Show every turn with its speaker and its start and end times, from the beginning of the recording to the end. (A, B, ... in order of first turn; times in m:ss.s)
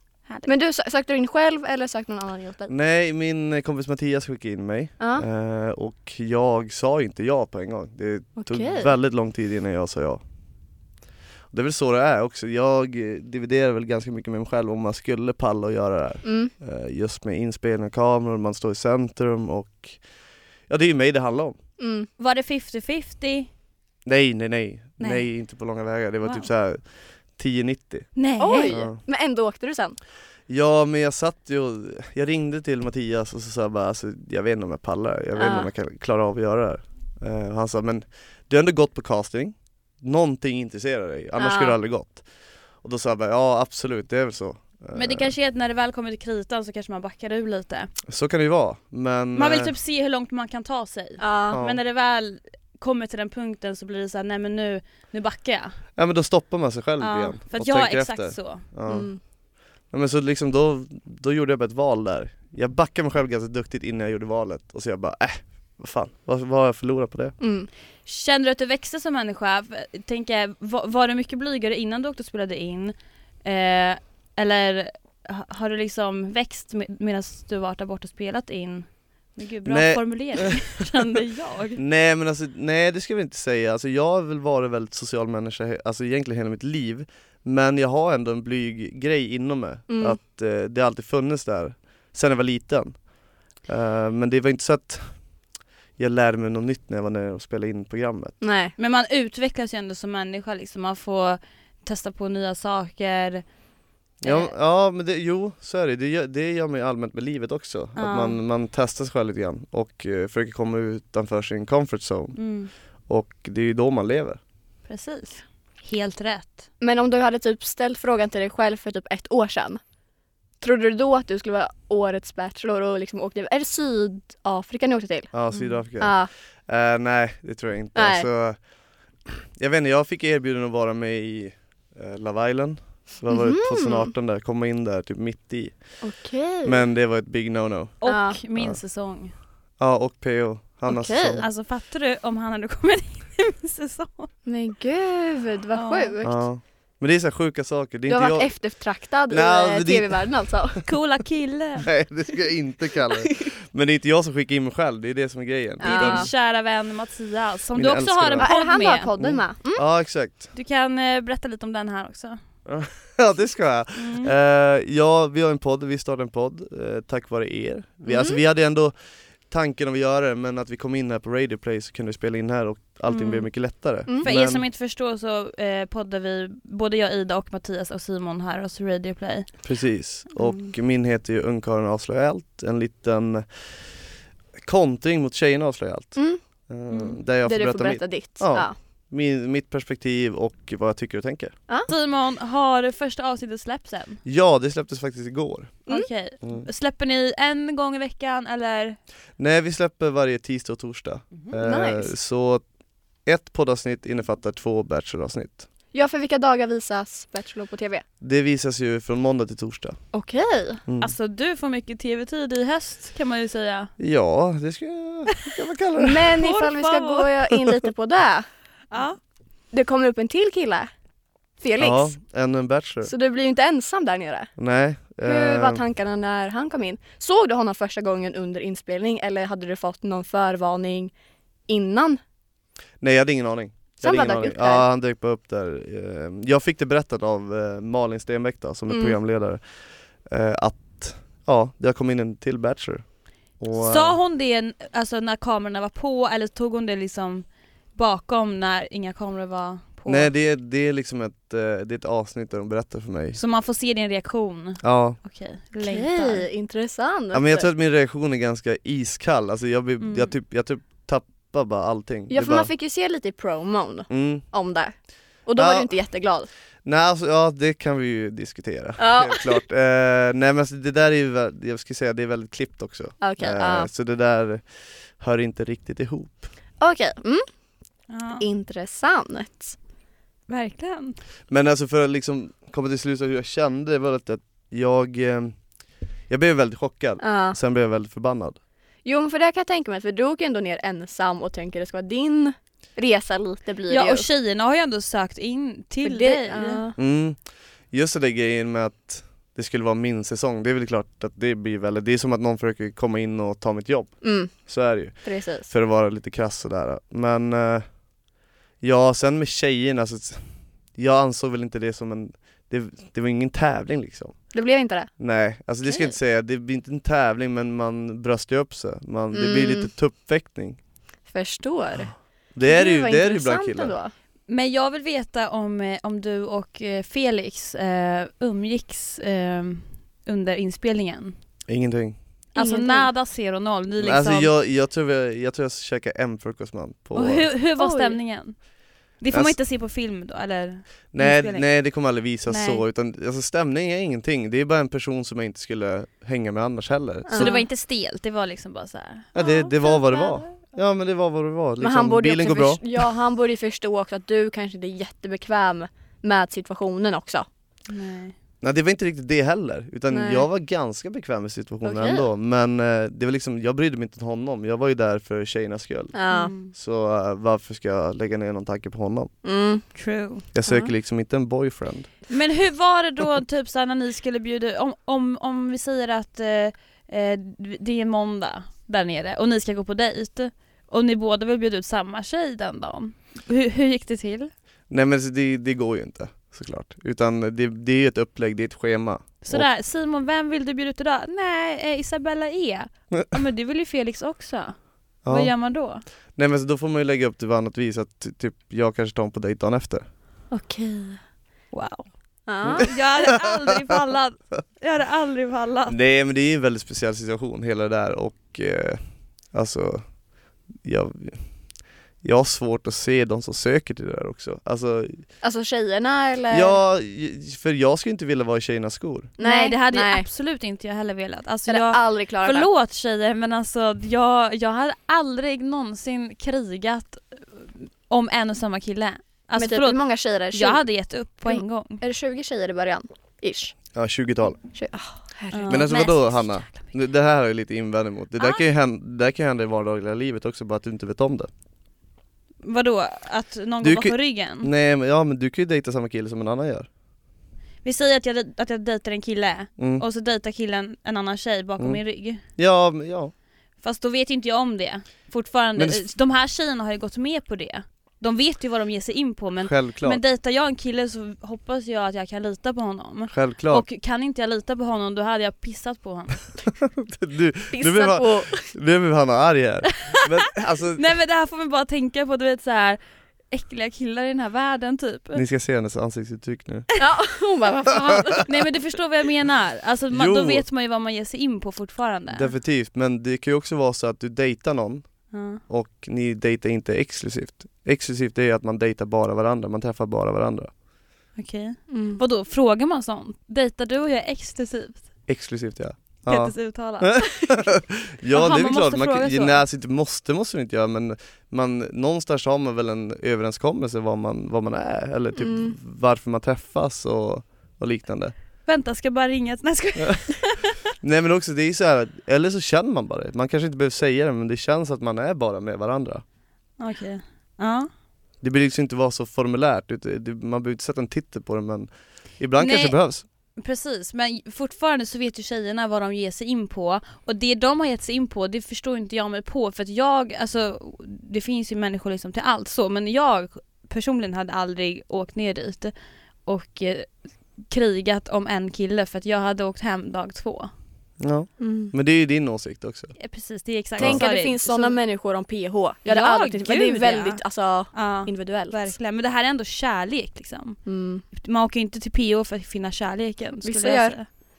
0:00.4-0:02.7 A
0:02.7-0:10.2 B
0:05.0-0:05.2 A
0:08.4-0:08.9 A
0:11.5-0:20.0 B
0:16.2-0:16.5 A
0:20.7-0:21.6 B
0:21.8-0:22.1 A
0:22.2-0:23.5 C
0:24.0-0:28.1 B
0:25.0-0:25.2 C
0:28.2-0:28.7 C
0:28.4-0:30.0 A
0:28.7-0:29.0 B
0:30.5-0:42.2 B
0:35.3-0:35.7 A
0:41.4-0:41.8 A
0:42.8-0:45.3 B
0:44.9-0:47.9 C
0:48.1-0:49.7 B
0:49.3-0:55.8 C
0:51.2-0:51.6 A
0:51.5-0:51.8 B
0:56.0-0:59.1 B
0:57.0-0:58.6 C
0:58.9-0:59.2 A
0:59.9-1:07.3 B
1:07.4-1:07.7 A
1:08.0-1:21.8 C
1:19.6-1:20.6 B
1:21.8-1:33.0 B
1:29.9-1:30.2 A
1:33.7-1:35.2 B
1:36.0-1:38.4 B
1:38.4-1:38.7 A
1:38.8-1:43.4 C
1:44.2-1:52.4 B
1:44.2-1:44.5 C
1:48.0-1:48.4 C
1:52.3-1:52.7 C
1:53.1-1:54.4 B
1:54.9-1:56.6 C
1:56.8-1:59.8 A
2:00.6-2:05.4 A
2:05.3-2:08.6 B
2:06.0-2:06.3 A
2:07.9-2:08.2 A
2:09.6-2:15.8 B
2:13.3-2:14.1 A
2:16.0-2:16.8 A
2:16.6-2:18.0 B
2:18.0-2:19.3 C
2:18.0-2:18.4 A
2:19.8-2:21.4 B
2:20.9-2:21.4 A
2:21.4-2:24.3 C
2:24.4-2:26.4 A
2:25.7-2:26.1 C
2:26.2-2:28.5 B
2:28.1-2:30.8 A
2:29.3-2:30.3 B
2:30.8-2:31.9 C
2:31.8-2:36.3 B
2:35.8-2:36.3 A
2:35.8-2:39.1 C
2:37.7-2:38.5 B
2:38.4-2:39.8 A
2:39.2-2:40.5 B
2:40.5-2:42.4 C
2:42.6-2:48.9 B
2:44.0-2:44.3 C
2:48.0-2:48.4 A
2:49.5-2:54.6 B
2:53.1-2:53.5 C
2:54.2-2:59.6 C
2:59.6-3:03.9 B
3:04.6-3:11.5 B
3:06.1-3:06.4 A
3:06.9-3:07.2 C
3:07.4-3:08.7 A
3:11.9-3:14.2 C
3:14.2-3:15.8 B
3:15.9-3:19.0 C
3:16.4-3:16.7 B
3:19.4-3:22.6 B
3:21.6-3:22.1 A
3:23.2-3:25.7 B
3:25.9-3:28.0 A
3:28.2-3:30.0 B
3:30.1-3:30.8 A
3:30.9-3:31.1 B
3:31.0-3:33.9 C
3:34.0-3:36.3 B
3:36.0-3:38.4 A
3:36.4-3:37.3 C
3:38.9-3:39.2 C
3:39.7-3:40.9 A
3:41.6-3:42.1 A
3:41.8-3:43.1 B
3:43.0-3:44.5 A
3:44.6-3:45.8 B
3:45.2-3:51.1 A
3:51.7-3:52.2 A
3:53.0-3:59.6 B
3:54.0-3:54.8 A
3:58.9-3:59.2 A
4:00.2-4:03.1 B
4:03.6-4:04.2 B
4:03.8-4:10.3 C
4:10.1-4:13.4 B
4:13.3-4:16.5 C
4:14.8-4:15.2 B
4:15.8-4:17.7 A
4:17.3-4:22.7 B
4:20.0-4:20.3 C
4:22.3-4:26.5 A
4:24.1-4:24.4 B
4:25.6-4:25.9 B
4:26.8-4:36.5 B
4:29.0-4:29.6 A
4:33.2-4:33.9 A
4:36.8-4:37.4 A
4:38.1-4:38.4 C
4:38.4-4:39.8 A
4:40.5-4:41.2 C
4:41.5-4:45.6 B
4:46.3-4:48.6 B
4:47.2-4:47.6 A
4:49.0-4:54.3 A
4:53.9-4:56.8 C
4:56.0-4:57.0 A
4:57.0-5:07.9 B
5:04.2-5:04.5 A
5:05.2-5:05.7 A
5:08.8-5:14.4 B
5:14.5-5:15.1 A
5:15.2-5:20.8 B
5:19.3-5:19.9 A
5:21.3-5:22.1 A
5:22.5-5:24.0 B
5:22.7-5:24.1 A
5:24.5-5:31.4 C
5:31.7-5:32.2 B
5:32.5-5:34.5 C
5:32.6-5:33.1 A
5:34.0-5:37.5 B
5:37.1-5:38.6 C
5:37.8-5:38.2 A
5:39.2-5:41.7 C
5:41.1-5:47.6 B
5:42.5-5:42.8 C
5:47.3-5:47.6 A
5:47.4-5:50.5 C
5:49.3-5:52.8 B
5:51.8-5:57.4 A
5:57.9-5:58.3 C
5:58.6-6:06.2 B
6:00.1-6:00.5 A
6:01.8-6:02.3 A
6:06.1-6:06.5 A
6:06.3-6:06.7 C
6:06.7-6:09.3 B
6:09.4-6:09.8 A
6:09.9-6:10.5 C
6:10.5-6:12.1 B
6:12.3-6:24.5 C
6:24.9-6:29.7 B
6:29.4-6:34.8 C
6:35.2-6:35.5 B
6:35.3-6:36.0 C
6:36.4-6:40.1 B
6:40.5-6:41.2 A
6:41.7-6:42.0 C
6:42.5-6:42.9 A
6:42.6-6:42.9 B
6:42.8-6:45.9 C
6:45.9-6:50.1 B
6:50.8-6:51.4 B
6:52.2-6:55.2 B
6:55.4-6:56.8 A
6:56.5-6:59.3 B
6:59.4-7:00.2 A
6:59.4-7:10.0 C
7:01.7-7:02.7 A
7:09.6-7:10.8 A
7:10.5-7:12.0 C
7:11.4-7:13.7 A
7:13.9-7:14.6 B
7:14.7-7:15.8 A
7:15.5-7:16.9 C
7:15.7-7:21.5 B
7:18.4-7:18.6 C
7:22.6-7:24.7 C
7:23.8-7:26.9 B
7:27.8-7:32.4 C
7:29.8-7:30.0 B
7:32.6-7:33.3 B
7:33.8-7:46.5 C
7:35.8-7:36.0 B
7:39.6-7:40.2 B
7:43.3-7:43.8 B
7:46.7-7:51.0 B
7:47.7-7:48.7 A
7:51.0-7:53.0 C
7:53.5-7:55.4 C
7:55.3-7:56.9 B
7:57.0-7:58.4 A
7:58.4-8:02.5 C
8:00.1-8:00.6 B
8:02.3-8:05.1 B
8:05.3-8:05.6 C
8:05.7-8:10.7 B
8:11.4-8:15.0 C
8:11.9-8:12.2 A
8:15.3-8:28.3 B
8:16.3-8:17.7 C
8:18.3-8:19.6 C
8:25.4-8:25.8 A
8:28.6-8:30.8 C
8:31.0-8:36.2 B
8:36.8-8:37.9 C
8:38.4-8:43.2 B
8:42.6-8:43.0 C
8:43.6-8:55.9 C
8:56.4-9:00.7 C
9:01.2-9:03.1 B
9:01.6-9:01.9 A
9:03.2-9:05.0 C
9:04.0-9:08.9 A
9:06.1-9:07.4 C
9:07.9-9:10.8 C
9:10.8-9:11.2 A
9:11.3-9:14.3 C
9:13.6-9:14.2 A